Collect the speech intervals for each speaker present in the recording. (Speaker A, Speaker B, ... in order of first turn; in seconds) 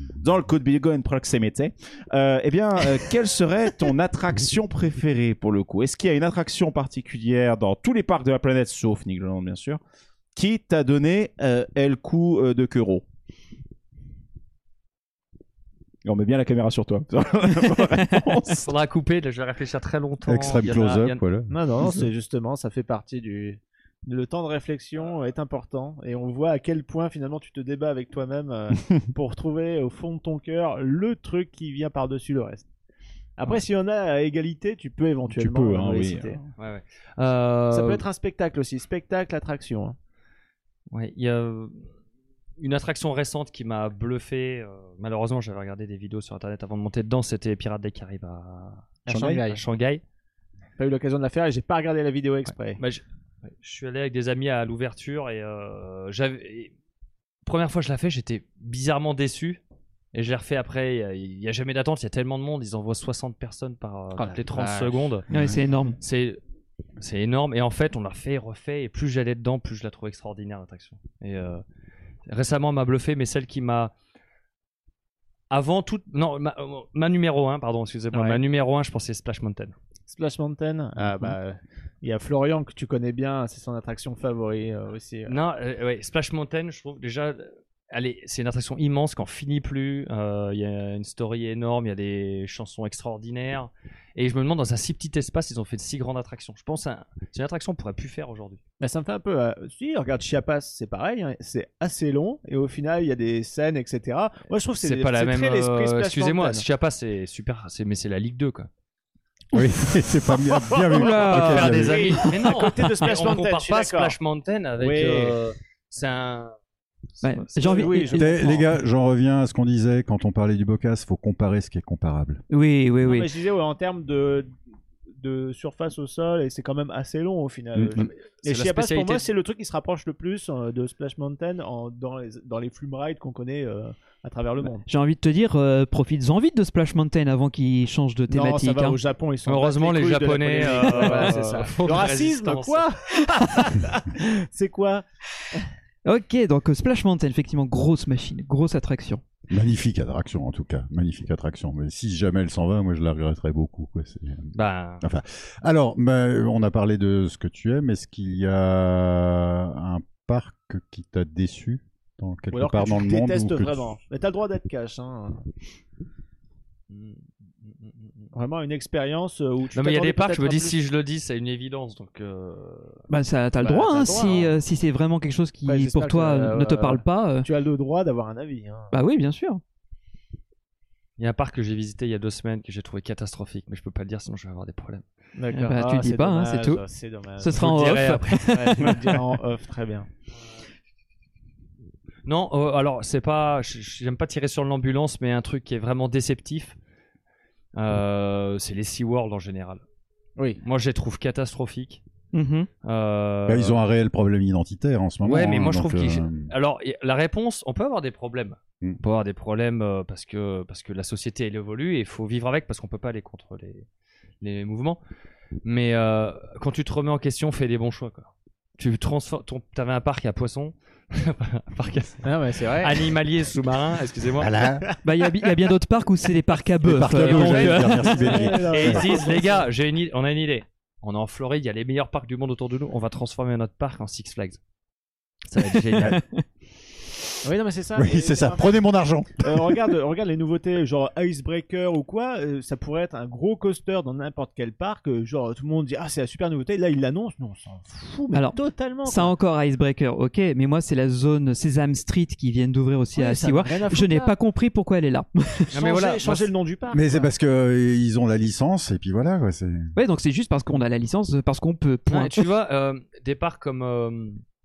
Speaker A: 0.2-9.8, 10.3-13.0, 16.1-18.6, 35.3-36.4
Speaker B: 18.0-18.2, 65.3-66.0, 111.0-112.5, 117.2-118.6, 122.5-123.3, 134.9-139.0, 146.1-149.2, 173.1-177.5, 178.9-179.6, 185.6-186.8, 187.4-189.2, 202.3-202.7, 225.0-227.8, 235.9-236.4, 248.3-255.7, 260.0-262.4
Speaker C: 18.6-21.2, 36.6-38.0, 40.9-41.8, 42.6-50.0, 52.8-53.0, 53.6-56.7, 57.5-59.6, 60.1-65.3, 66.0-66.4, 67.0-71.6, 72.3-73.9, 75.5-79.8, 85.3-98.6, 104.8-108.7, 111.0-116.6, 117.2-117.9, 128.0-129.3, 139.5-142.9, 154.5-155.1, 169.8-173.0, 181.2-185.7, 187.5-188.8, 192.3-196.8, 197.7-199.8, 200.6-202.0, 202.8-203.8, 205.2-213.9, 214.4-215.0, 215.6-224.5, 227.1-234.6, 235.5-236.2, 255.7-256.5, 262.1-264.4
Speaker D: 20.2-21.5, 109.5-112.3, 118.1-122.4, 149.5-163.9, 203.5-206.5, 224.4-224.9, 226.8-229.1, 237.9-239.9, 256.9-259.9
Speaker E: 21.5-32.7, 33.4-36.4, 37.7-40.0, 49.1-49.6, 50.8-52.8, 64.2-65.2, 78.1-78.4, 80.1-85.3, 98.8-106.7, 110.7-114.2, 114.8-115.4, 117.7-118.7, 123.0-124.5, 125.2-134.8, 138.3-145.0, 162.5-165.5, 166.9-167.2, 168.3-170.8, 173.6-174.5, 175.7-178.9, 185.4-187.7, 188.5-190.1, 222.2-223.1, 227.9-229.7, 237.4-238.8, 239.4-249.3, 253.1-254.3, 255.7-257.3